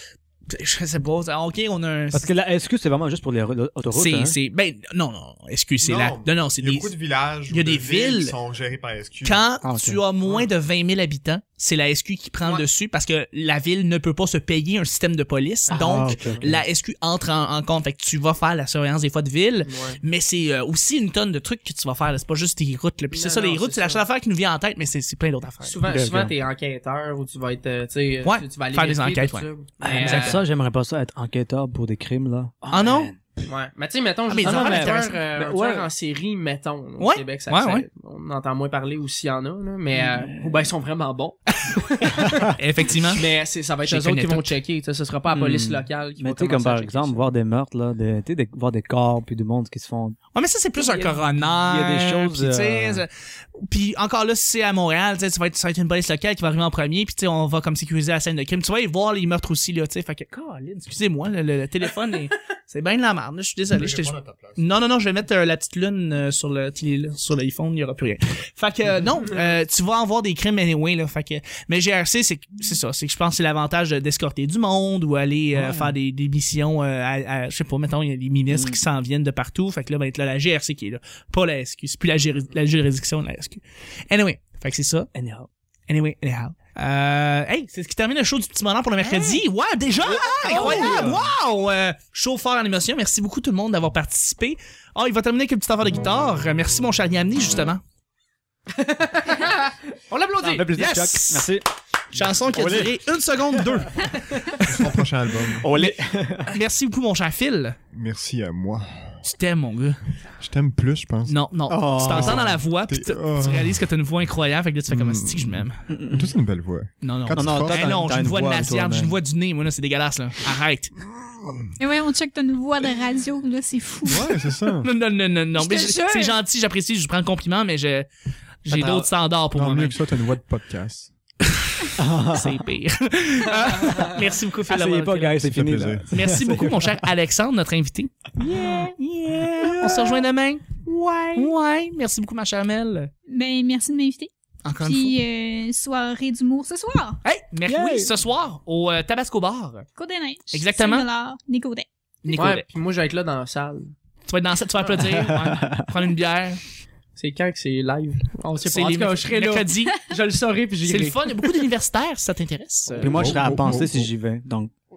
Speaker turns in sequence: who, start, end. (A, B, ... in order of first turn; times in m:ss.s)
0:00.5-0:02.3 A
0:02.1-0:04.4 B
0:03.9-0:07.0 A
0:05.8-0:09.4 C
0:07.5-0:08.4 A
0:09.2-0:25.8 A
0:09.6-0:10.0 B
0:15.7-0:16.4 D
0:15.7-0:16.6 B
0:19.7-0:20.0 D
0:23.1-0:24.0 D
0:25.6-0:30.4 D
0:25.8-0:26.3 B
0:28.2-0:30.4 A
0:29.8-0:33.5 B
0:32.7-0:33.1 A
0:33.5-0:47.3 D
0:34.3-0:35.2 A
0:34.4-0:35.9 B
0:37.0-0:37.9 A
0:40.0-0:40.6 B
0:42.2-0:43.3 A
0:42.2-0:42.5 B
0:43.8-0:44.5 A
0:45.3-0:50.2 B
0:50.3-1:25.1 A
0:50.8-0:53.0 B
1:03.7-1:04.6 C
1:15.5-1:16.0 B
1:18.5-1:18.8 B
1:25.1-1:25.5 B
1:25.9-1:37.8 A
1:29.0-1:29.4 B
1:30.0-1:31.2 B
1:30.4-1:31.1 C
1:38.7-1:40.7 D
1:40.4-1:41.6 B
1:40.8-1:41.5 A
1:42.1-1:45.9 A
1:42.5-1:43.0 C
1:44.6-1:45.7 C
1:45.6-1:46.6 B
1:46.5-1:47.8 A
1:47.9-1:49.2 C
1:49.2-1:50.0 A
1:50.4-1:51.4 C
1:51.3-1:55.9 A
1:51.7-1:52.5 B
1:52.0-1:53.8 C
1:54.9-1:58.0 C
1:55.9-1:56.3 B
1:57.0-2:00.9 A
1:57.4-1:59.2 B
2:01.2-2:01.7 C
2:01.8-2:04.3 E
2:04.1-2:04.9 C
2:04.8-2:08.1 A
2:05.6-2:06.4 E
2:08.6-2:10.0 A
2:08.7-2:09.1 B
2:09.6-2:11.1 C
2:11.4-2:15.5 A
2:12.0-2:12.7 B
2:13.6-2:14.1 D
2:13.7-2:14.2 B
2:14.7-2:17.1 B
2:15.5-2:16.1 C
2:16.1-2:23.1 A
2:18.4-2:20.2 B
2:21.0-2:21.5 B
2:23.3-2:24.3 E
2:24.6-2:25.2 A
2:24.8-2:27.2 E
2:27.2-2:29.9 A
2:27.7-2:28.2 B
2:30.0-2:31.9 E
2:30.5-2:31.1 A
2:32.2-2:32.6 A
2:32.3-2:33.9 D
2:34.3-2:36.6 A
2:34.8-2:35.3 D
2:35.1-2:35.9 B
2:37.2-2:41.4 D
2:38.6-2:40.1 A
2:40.8-2:43.4 A
2:42.9-2:43.3 D
2:43.0-2:44.7 B
2:43.1-2:44.1 C